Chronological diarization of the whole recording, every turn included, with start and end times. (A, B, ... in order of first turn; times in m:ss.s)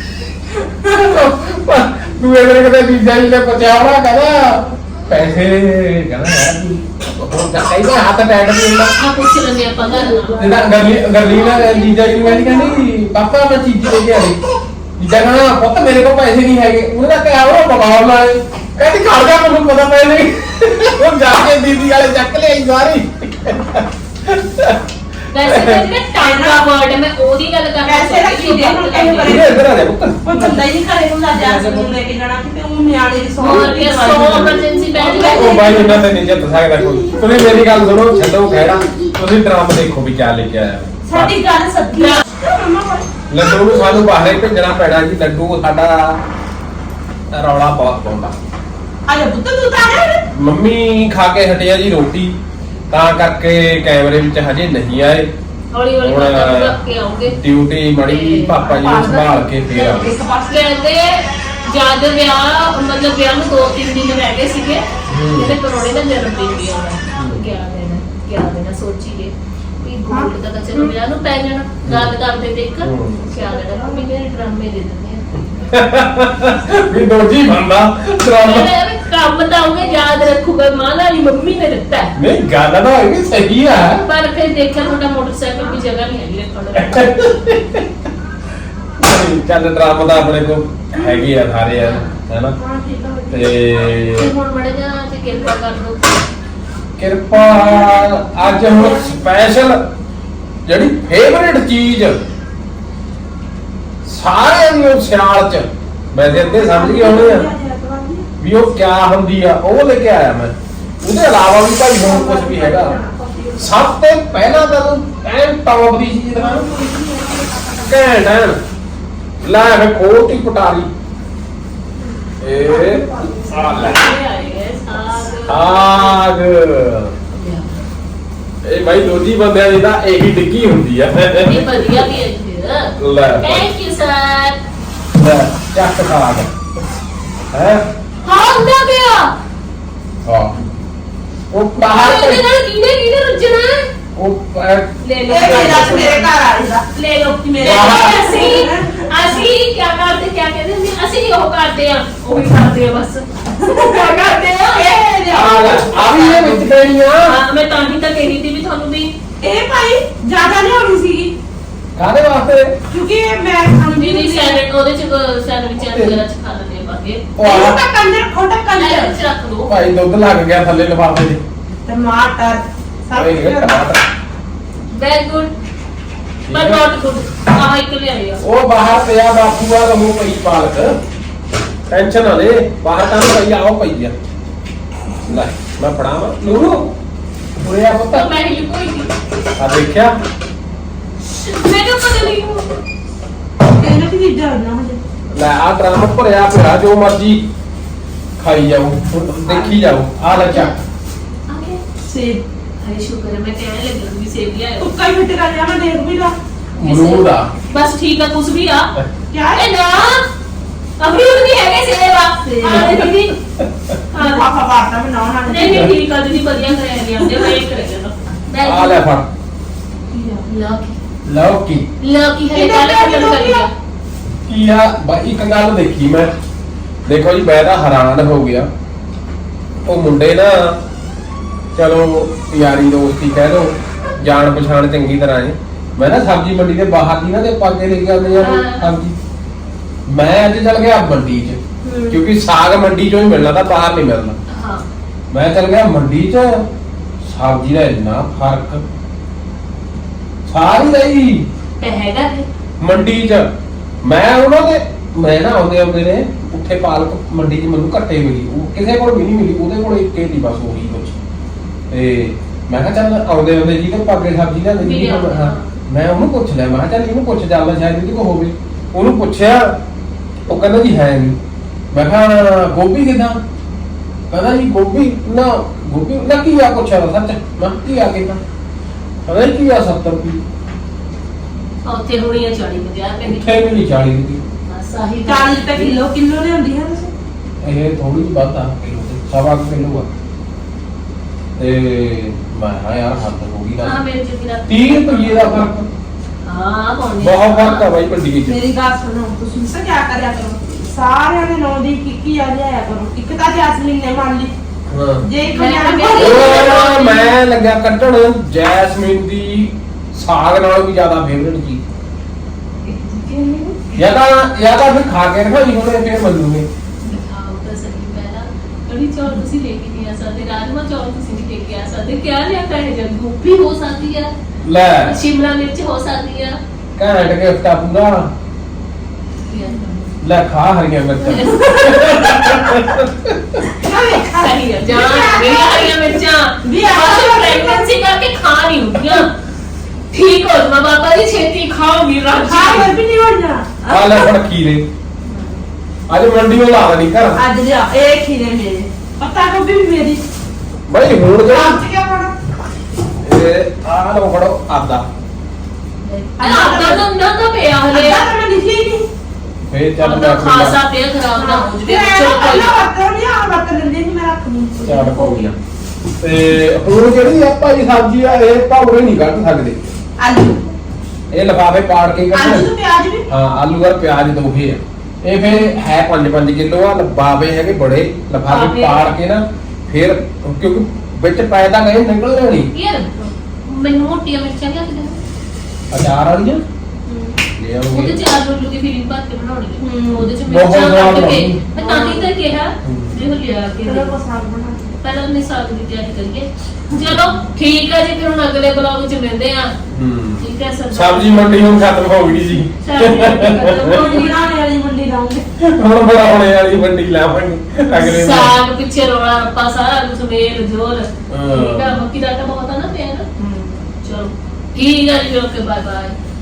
0:00.6-0:08.9 A
0:09.0-0:10.4 B
0:09.8-0:12.8 C
0:10.4-0:14.4 A
0:15.0-0:24.8 A
0:25.3-0:29.3 B
0:25.4-0:25.9 A
0:26.1-0:26.7 C
0:27.8-0:36.0 C
0:29.2-0:30.6 A
0:31.4-0:31.9 A
0:33.4-0:36.0 B
0:35.0-0:41.3 A
0:41.0-0:43.1 C
0:41.9-0:42.2 B
0:43.3-0:46.2 A
0:47.3-0:48.4 A
0:49.1-0:50.2 C
0:50.3-0:52.3 A
0:52.9-0:55.3 A
0:55.7-0:57.4 B
0:56.0-1:00.2 A
0:58.0-0:59.1 B
0:58.7-1:00.7 C
1:00.5-1:15.5 B
1:05.1-1:05.6 A
1:07.2-1:07.4 A
1:10.1-1:10.9 C
1:11.8-1:12.1 A
1:12.8-1:13.3 A
1:13.3-1:14.1 C
1:15.7-1:18.7 A
1:18.4-1:22.2 B
1:22.2-1:24.0 A
1:24.0-1:27.2 B
1:26.8-1:27.9 A
1:29.0-1:32.6 A
1:31.0-1:31.3 C
1:31.7-1:32.2 B
1:32.6-1:33.5 C
1:33.3-1:34.3 A
1:34.1-1:36.1 B
1:37.0-1:39.8 A
1:37.3-1:39.2 C
1:40.7-1:42.2 A
1:44.0-1:47.5 A
1:46.2-1:48.3 C
1:48.4-1:53.0 A
1:51.9-1:53.9 C
1:53.6-1:56.7 A
1:56.4-1:58.0 C
1:57.8-1:58.6 A
1:59.4-2:00.9 A
2:02.4-2:04.1 A
2:02.6-2:04.1 C
2:03.6-2:06.2 B
2:05.5-2:07.2 A
2:07.3-2:07.8 B
2:08.6-2:11.7 A
2:11.4-2:14.6 B
2:13.0-2:13.7 A
2:15.1-2:16.5 A
2:17.5-2:17.8 A
2:18.2-2:19.3 B
2:20.2-2:20.6 A
2:21.5-2:22.4 A
2:21.8-2:23.9 B
2:24.2-2:26.1 A
2:25.0-2:26.3 B
2:25.3-2:29.4 C
2:27.5-2:34.9 B
2:27.6-2:28.2 A
2:33.6-2:36.4 C
2:35.3-2:37.4 A
2:36.0-2:36.6 B
2:37.2-2:39.1 B
2:39.4-2:41.3 C
2:42.0-2:42.7 A
2:42.9-2:44.6 C
2:43.9-2:47.3 B
2:45.8-2:46.2 A
2:47.4-2:47.8 A
2:47.4-2:49.1 C
2:48.8-2:49.7 B
2:49.6-2:51.4 A
2:51.9-2:53.8 C
2:53.1-2:54.0 A
2:54.9-2:55.5 B
2:56.5-2:56.8 A
2:56.5-2:58.4 B
2:58.4-3:01.0 A
3:01.9-3:04.1 A
3:05.3-3:06.9 A
3:07.6-3:08.3 A
3:08.1-3:09.1 B
3:09.6-3:10.2 A
3:11.2-3:12.7 B
3:13.8-3:15.0 C
3:15.3-3:17.5 A
3:18.4-3:20.8 A
3:19.5-3:19.8 C
3:20.3-3:20.8 B
3:21.5-3:21.8 B
3:22.1-3:22.4 C
3:22.8-3:24.9 B
3:24.8-3:26.4 C
3:26.8-3:27.5 A
3:26.8-3:28.9 B
3:29.3-3:29.7 C
3:29.5-3:30.3 B
3:31.0-3:33.3 B
3:32.5-3:33.1 C
3:32.7-3:34.0 A
3:34.1-3:34.5 B
3:34.2-3:36.0 C
3:35.5-3:39.0 B
3:36.5-3:37.5 C
3:38.6-3:39.3 A
3:40.1-3:40.4 C
3:40.4-3:41.0 B
3:41.2-3:41.9 A
3:42.0-3:43.7 B
3:42.5-3:43.7 C
3:44.5-3:46.3 A
3:47.1-3:48.7 A
3:49.9-3:50.8 A
3:51.8-3:59.2 A
3:58.4-3:58.9 B
4:00.1-4:01.6 A
4:01.8-4:02.2 B
4:02.1-4:04.4 A
4:04.5-4:04.9 B
4:05.3-4:06.7 A
4:07.2-4:08.8 A
4:10.5-4:11.5 A
4:11.8-4:12.5 B
4:12.8-4:13.5 A
4:14.0-4:21.2 A
4:21.9-4:29.8 A
4:24.8-4:25.7 B
4:30.5-4:31.4 A
4:31.9-4:33.4 A
4:34.3-4:38.4 A
4:39.3-4:40.4 A
4:41.8-4:43.7 B
4:43.2-4:44.4 A
4:44.7-4:46.0 B
4:45.2-4:47.1 C
4:47.6-4:50.1 A
4:51.6-4:54.0 A
4:53.8-4:55.7 B
4:54.7-4:55.9 A
4:56.4-4:57.8 B
4:57.2-4:58.6 A
4:58.4-5:04.5 C
5:04.9-5:05.3 A
5:05.2-5:06.9 C
5:05.5-5:07.3 B
5:06.2-5:11.8 A
5:12.8-5:13.8 B
5:14.0-5:16.7 A
5:17.0-5:24.3 B
5:24.6-5:25.2 A
5:24.9-5:26.6 B
5:27.0-5:28.3 A
5:29.5-5:30.1 B
5:30.2-5:33.6 A
5:31.2-5:32.3 B
5:32.4-5:32.7 C
5:33.7-5:35.9 C
5:34.4-5:39.3 B
5:36.6-5:37.9 C
5:40.1-5:42.9 B
5:42.4-5:44.3 C
5:43.9-5:44.8 A
5:45.3-5:45.6 B
5:46.1-5:47.4 A
5:47.4-5:50.2 C
5:50.9-5:51.8 A
5:51.5-5:52.4 C
5:53.2-5:55.0 A
5:56.0-5:58.3 B
5:56.4-5:57.0 C
5:57.9-5:59.1 C
5:59.7-6:00.8 A
6:00.0-6:02.7 B
6:01.4-6:05.5 C
6:04.8-6:05.6 A
6:06.2-6:09.9 A
6:10.2-6:10.6 C
6:11.3-6:12.7 A
6:12.3-6:13.3 C
6:13.3-6:22.7 A
6:18.5-6:19.1 B
6:22.7-6:25.2 B
6:25.9-6:26.6 A
6:27.1-6:27.3 B
6:27.6-6:28.2 A
6:27.9-6:34.2 B
6:29.8-6:30.4 C
6:30.5-6:31.6 A
6:31.8-6:32.3 C
6:32.8-6:33.2 A
6:33.8-6:34.9 C
6:35.0-6:39.7 B
6:36.9-6:37.3 A
6:39.9-6:44.0 A
6:40.4-6:41.9 B
6:42.8-6:44.4 B
6:43.8-6:45.4 C
6:45.6-6:48.5 A
6:48.0-6:53.2 B
6:51.3-6:52.0 A
6:53.4-6:53.8 C
6:54.0-6:56.2 B